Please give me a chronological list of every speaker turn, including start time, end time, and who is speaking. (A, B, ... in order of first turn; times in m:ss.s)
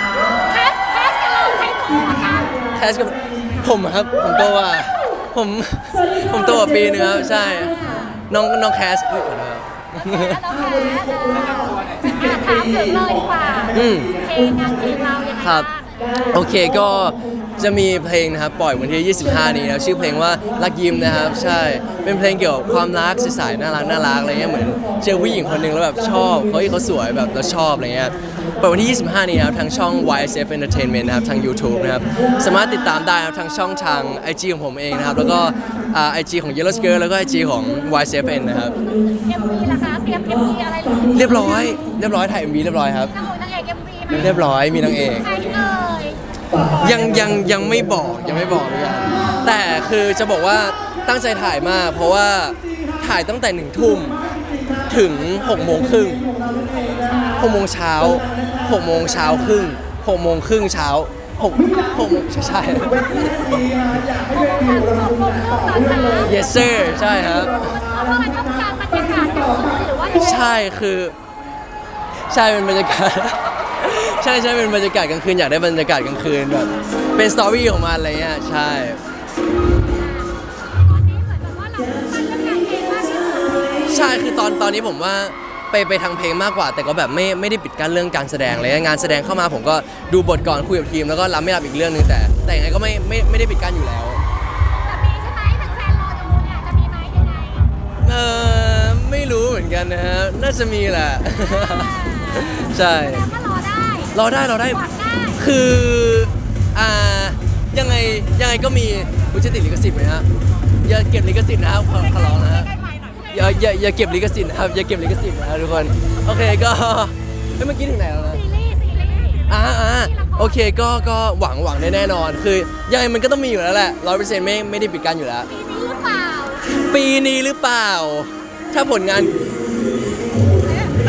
0:00.4-0:02.6 A
0:02.7-0:10.4 B
0:10.1-0:16.2 A
0:13.7-0:14.2 B
0:15.3-0:15.7 B
0:16.3-0:38.8 B
0:39.0-0:41.2 A
0:41.1-0:43.2 B
0:43.2-0:44.2 A
0:44.1-0:45.4 B
0:45.3-0:46.2 A
0:46.7-0:56.3 B
0:56.8-0:57.4 A
0:57.3-1:03.8 B
1:04.0-1:06.3 A
1:06.2-1:07.8 B
1:07.7-1:10.3 A
1:10.1-1:11.2 B
1:12.3-1:19.0 B
1:19.9-1:23.8 A
1:23.9-1:34.2 B
1:34.7-1:37.7 A
1:38.0-1:43.3 B
1:41.8-1:42.4 A
1:43.3-1:44.1 A
1:44.1-1:50.2 B
1:44.9-1:45.3 A
1:50.8-1:52.7 B
1:53.3-1:58.4 B
1:58.4-1:59.5 A
1:59.5-2:05.5 B
2:05.5-2:06.7 A
2:06.7-2:09.3 B